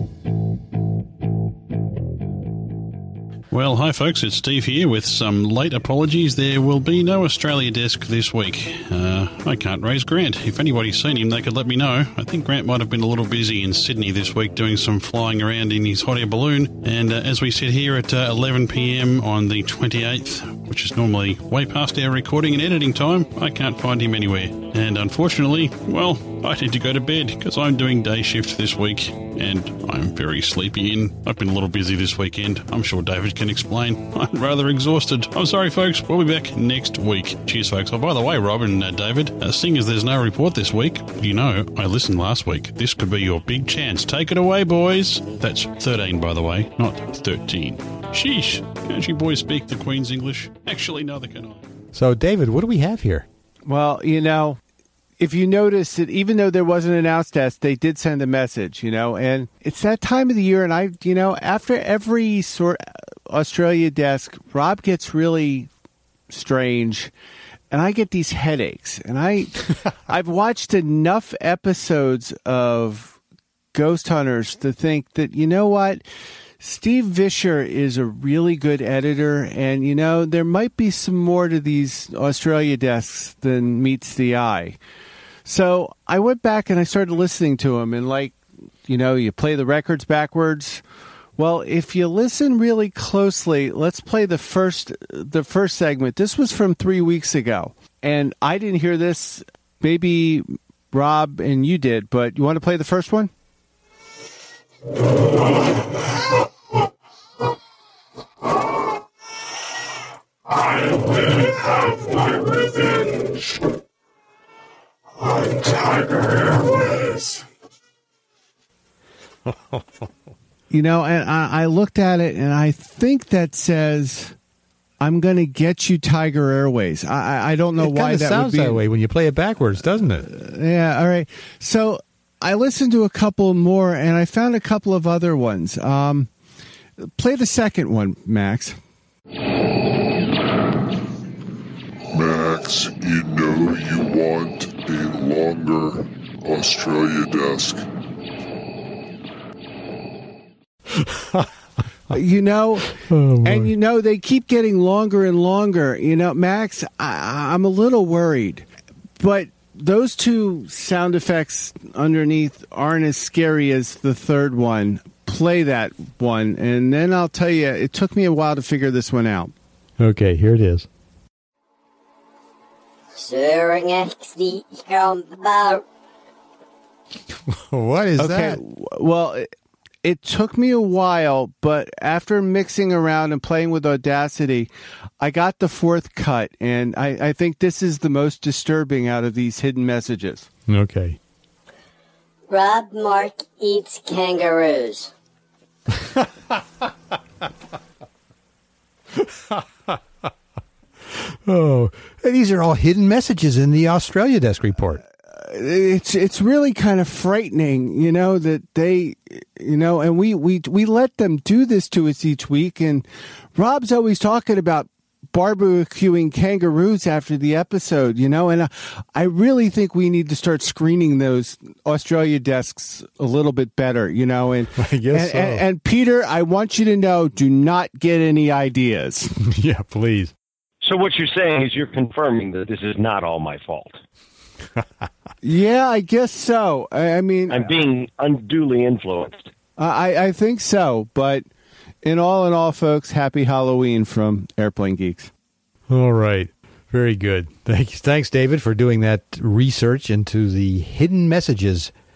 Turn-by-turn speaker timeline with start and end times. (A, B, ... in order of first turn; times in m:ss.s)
0:03.5-0:51.6 A
0:51.9-0:53.2 B
0:53.6-0:54.6 C
0:55.2-1:05.7 C
1:06.3-1:07.1 C
1:07.7-1:13.2 C
1:13.7-1:16.0 C
1:16.6-1:24.8 C
1:25.4-1:30.8 C
1:31.4-1:43.3 C
2:00.7-2:04.3 C
2:05.0-2:08.8 C
2:07.8-2:10.3 B
2:10.2-2:16.3 C
2:17.0-2:18.8 C
2:22.1-2:27.8 D
2:31.0-2:31.5 B
2:32.1-2:32.9 C
2:33.0-2:33.7 B
2:33.4-2:38.7 C
2:39.2-2:49.5 C
2:50.0-2:50.9 B
2:53.2-2:55.8 E
2:57.5-2:58.6 B
2:58.2-2:59.5 C
3:00.0-3:04.7 C
3:05.2-3:10.5 C
3:10.7-3:11.2 B
3:12.5-3:15.1 E
3:21.5-3:25.0 B
3:25.3-3:49.3 C
3:44.8-3:45.6 B
3:49.4-3:50.3 B
3:50.8-3:54.0 F
3:55.4-3:57.7 C
3:57.5-3:59.5 F
3:59.8-4:01.4 C
4:02.0-4:05.3 C
4:05.9-4:11.9 B